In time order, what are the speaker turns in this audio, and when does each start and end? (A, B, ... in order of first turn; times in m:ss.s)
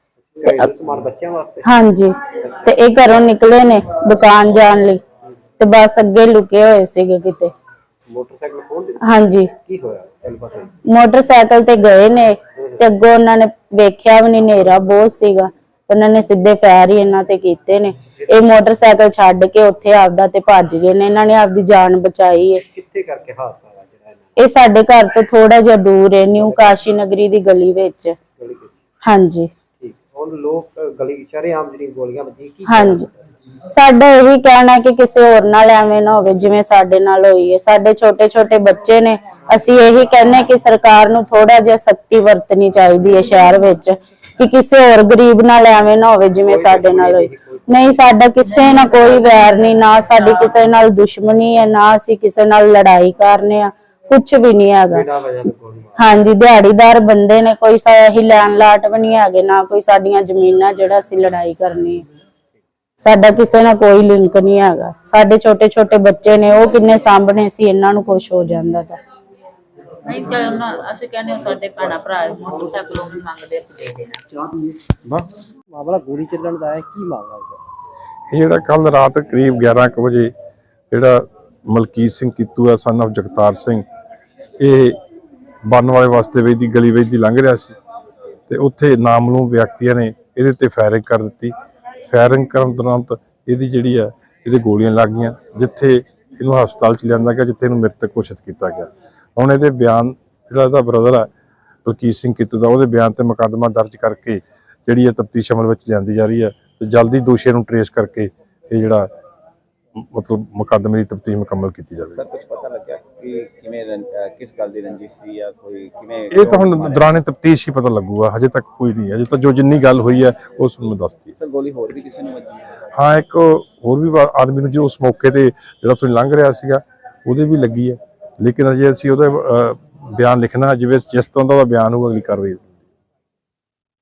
0:00.3-0:01.8 A
0:00.5-0:00.7 B
0:01.6-0:05.0 B
0:05.6-0:07.5 B
0:08.1-0:10.7 A
0:09.0-0:09.5 B
0:10.9-0:22.6 B
0:12.6-0:12.9 A
0:22.7-0:24.4 A
0:24.4-0:28.2 B
0:26.4-0:27.0 A
0:28.4-0:28.7 A
0:29.0-0:29.5 B
0:29.8-0:33.2 A
0:32.7-0:33.1 B
0:33.7-0:55.0 B
0:46.4-0:48.0 A
0:48.6-0:49.0 C
0:54.9-0:56.1 A
0:56.0-1:02.0 B
1:03.0-1:09.0 B
1:10.0-1:14.8 C
1:15.7-1:17.6 A
1:18.3-1:20.3 D
1:20.9-1:23.8 D
1:24.6-1:25.0 D
1:25.7-1:27.8 D
1:28.5-1:31.5 D
1:32.1-1:41.3 D
1:41.8-1:49.1 D
1:50.0-1:52.2 D
1:52.1-1:57.1 E
1:56.3-2:01.3 D
2:01.4-2:02.7 E
2:02.9-2:12.6 D